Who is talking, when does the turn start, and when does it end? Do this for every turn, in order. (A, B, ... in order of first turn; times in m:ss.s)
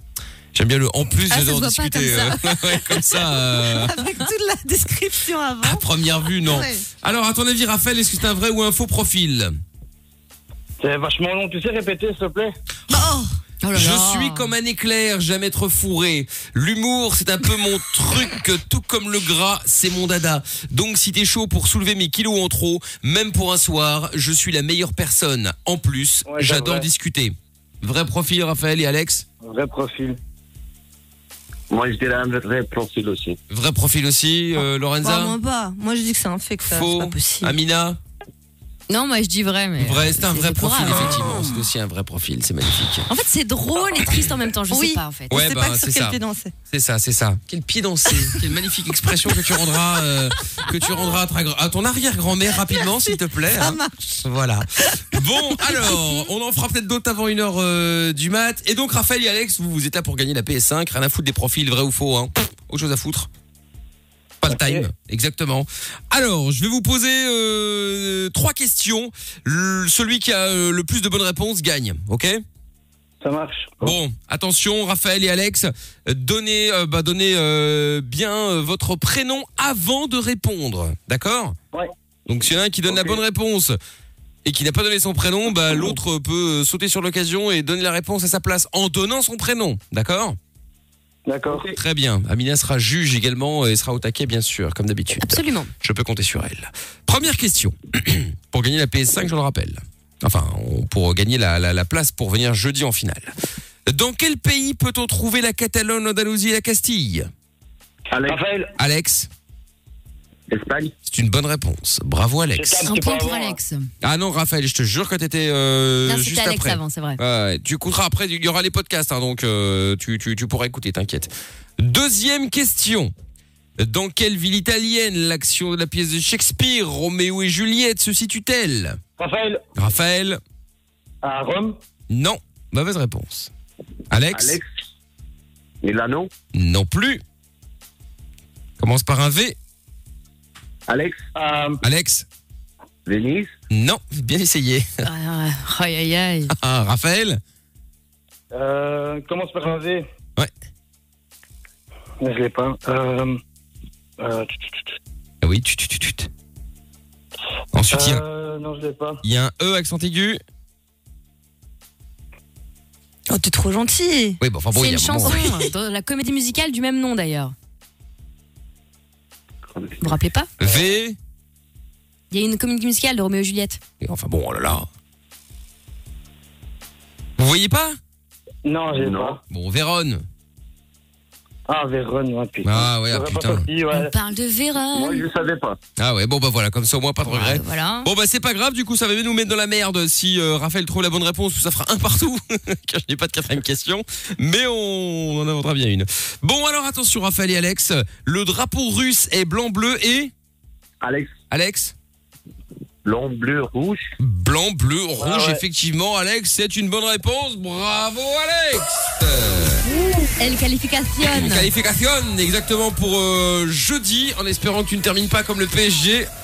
0:00.5-0:04.1 A
0:01.3-0:02.3 B
0:01.4-0:05.8 C
0:05.6-0:09.6 A
0:06.4-0:06.8 C
0:10.8-0:12.5 D
0:12.9-0:13.4 C
0:13.6-0:14.5 B
0:13.7-0:29.3 A
0:26.3-0:26.9 D
0:29.4-0:30.2 D
0:31.7-0:33.4 E
0:33.5-0:35.4 A
0:35.0-0:37.5 C
0:36.6-0:38.0 A
0:38.9-0:41.3 B
0:39.8-0:43.1 A
0:43.1-0:45.4 B
0:44.7-0:46.5 C
0:45.3-1:03.3 A
0:50.8-0:51.1 C
0:52.7-0:56.1 C
1:04.4-1:12.4 A
1:04.5-1:04.9 D
1:13.2-1:14.0 D
1:13.8-1:21.6 A
1:22.3-1:23.8 A
1:24.4-1:30.4 A
1:31.3-1:31.7 D
1:31.7-1:43.3 A
1:35.2-1:35.7 B
1:43.9-1:47.3 A
1:48.1-1:48.4 E
1:48.2-1:48.7 D
1:48.8-1:49.3 A
1:50.5-1:50.9 E
1:51.1-1:52.9 A
1:52.5-1:53.6 D
1:52.8-1:53.9 B
1:54.0-2:03.1 A
1:56.0-1:57.2 B
2:03.8-2:09.0 A
2:09.2-2:09.6 D
2:09.8-2:10.4 A
2:11.2-2:11.8 D
2:12.1-2:13.5 A
2:14.1-2:14.6 A
2:14.3-2:14.7 E
2:15.8-2:16.3 E
2:16.5-2:17.2 A
2:18.8-2:19.6 A
2:20.9-2:21.2 E
2:21.4-2:21.8 D
2:21.8-2:22.3 A
2:23.1-2:23.5 E
2:23.7-2:25.0 A
2:25.0-2:26.5 B
2:26.5-2:27.4 A
2:28.5-2:30.0 D
2:32.2-2:33.4 D
2:34.2-2:35.0 D
2:35.4-2:36.3 A
2:37.7-2:38.2 A
2:37.9-2:39.2 D
2:39.2-2:40.4 A
2:43.3-2:44.4 C
2:44.4-2:45.6 A
2:44.7-2:47.5 B
2:50.0-2:50.5 B
2:50.6-2:51.2 A
2:52.3-2:53.8 B
2:54.0-2:54.9 A
2:57.4-2:58.0 A
2:58.6-2:59.4 D
2:58.9-2:59.4 E
2:59.5-3:00.2 A
3:01.7-3:04.1 D
3:02.6-3:03.7 A
3:03.9-3:05.3 B
3:04.9-3:05.8 E
3:06.0-3:20.3 A
3:07.2-3:08.1 B
3:21.0-3:21.3 E
3:21.5-3:21.9 A
3:23.0-3:24.1 E
3:24.2-3:29.8 A
3:25.2-3:25.6 D
3:30.4-3:31.7 B
3:31.2-3:36.3 A